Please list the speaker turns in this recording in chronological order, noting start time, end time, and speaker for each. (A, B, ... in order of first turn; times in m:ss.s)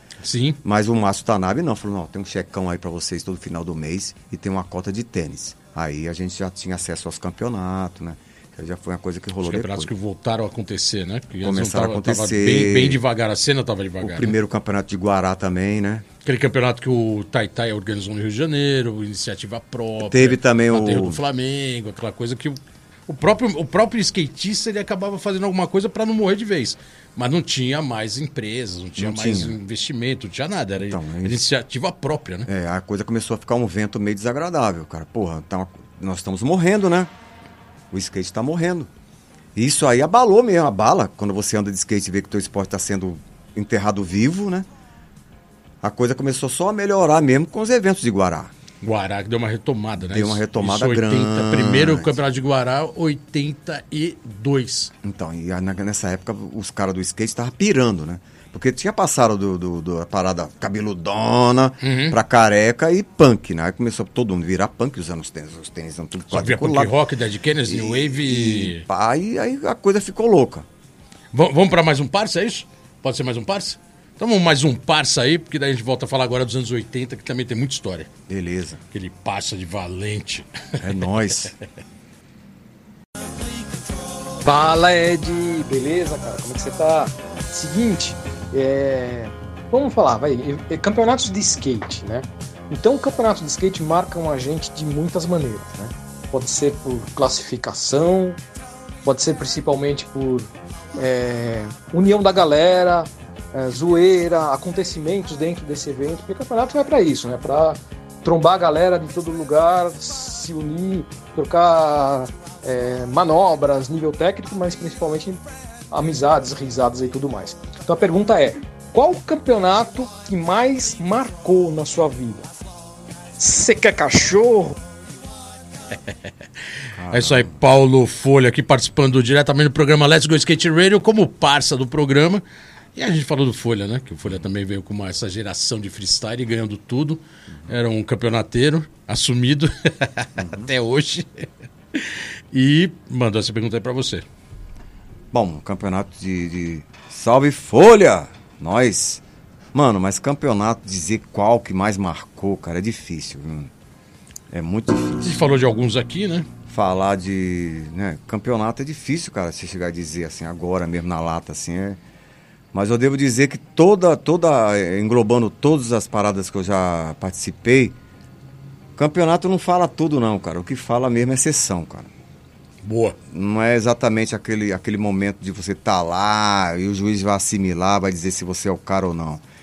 0:00.2-0:00.6 A
0:00.6-0:09.9 B
0:09.4-0:14.3 A
0:11.4-0:13.0 B
0:14.0-0:16.0 B
0:16.2-0:32.5 A
0:20.0-0:21.2 B
0:29.0-0:29.6 B
0:30.8-0:31.4 B
0:32.4-0:37.1 B
0:37.9-0:38.9 B
0:39.5-0:44.7 B
0:45.8-0:48.5 B
0:48.8-0:54.9 A
0:50.0-0:52.1 B
0:55.0-1:06.9 B
1:01.8-1:02.2 A
1:06.3-1:08.9 A
1:07.6-1:10.6 B
1:11.3-1:18.1 A
1:18.3-1:18.8 B
1:18.9-1:20.9 A
1:20.8-1:21.5 B
1:24.4-1:38.4 C
1:39.0-2:02.5 C
2:03.4-2:04.8 C
2:07.0-2:07.6 B
2:07.1-2:12.4 A
2:12.9-2:24.2 A
2:20.4-2:20.7 B
2:25.3-2:29.2 B
2:29.7-2:33.7 B
2:34.5-2:35.5 B
2:35.2-2:36.5 A
2:36.7-2:42.0 B
2:42.7-2:48.0 B
2:49.0-2:52.1 B
2:52.8-2:53.2 A
2:53.3-2:59.4 B